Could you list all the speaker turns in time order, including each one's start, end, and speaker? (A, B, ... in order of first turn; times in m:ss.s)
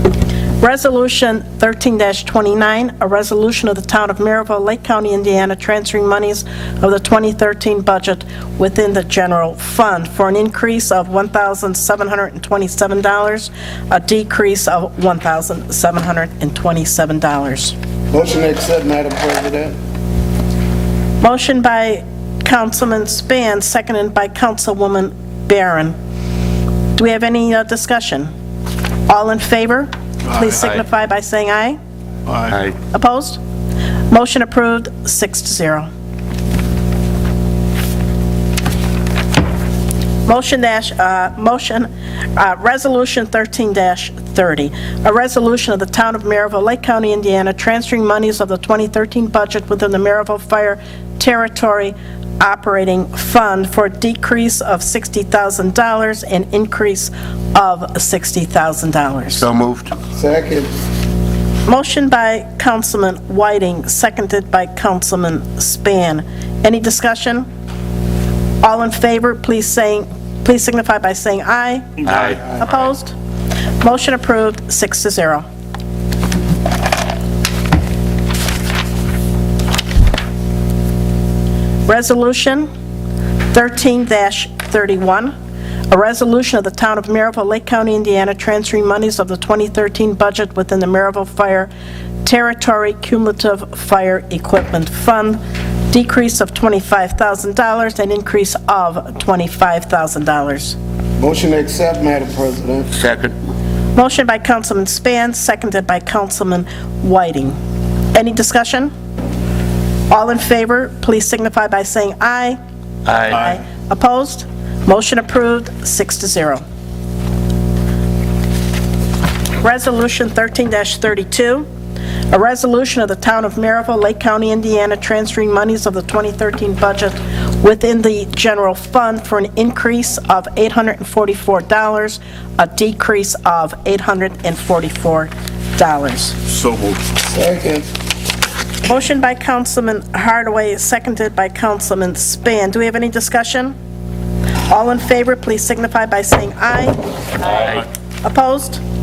0:00.6-0:17.8 A
0:18.1-0:19.8 B
0:21.2-0:26.0 A
0:27.0-0:28.3 A
0:29.1-0:31.8 A
0:32.3-0:32.8 C
0:32.9-0:33.4 A
0:34.1-0:35.9 A
0:40.3-0:59.5 A
0:59.4-1:00.0 C
1:00.2-1:00.7 B
1:01.7-1:07.5 A
1:08.6-1:12.0 A
1:12.0-1:12.5 C
1:12.6-1:13.1 A
1:13.8-1:15.5 A
1:21.9-1:22.7 A
1:23.5-1:25.3 A
1:25.9-1:31.7 A
1:32.2-1:35.4 A
1:35.9-1:40.8 A
1:41.2-1:42.9 B
1:42.9-1:43.4 C
1:44.0-1:47.6 A
1:48.1-1:48.9 A
1:50.1-1:52.6 A
1:53.1-1:53.5 C
1:53.2-1:56.6 A
1:59.6-2:01.7 A
2:02.3-2:16.4 A
2:16.5-2:17.2 C
2:17.2-2:17.9 B
2:18.8-2:23.8 A
2:24.7-2:27.7 A
2:27.5-2:27.8 C
2:28.2-2:28.8 A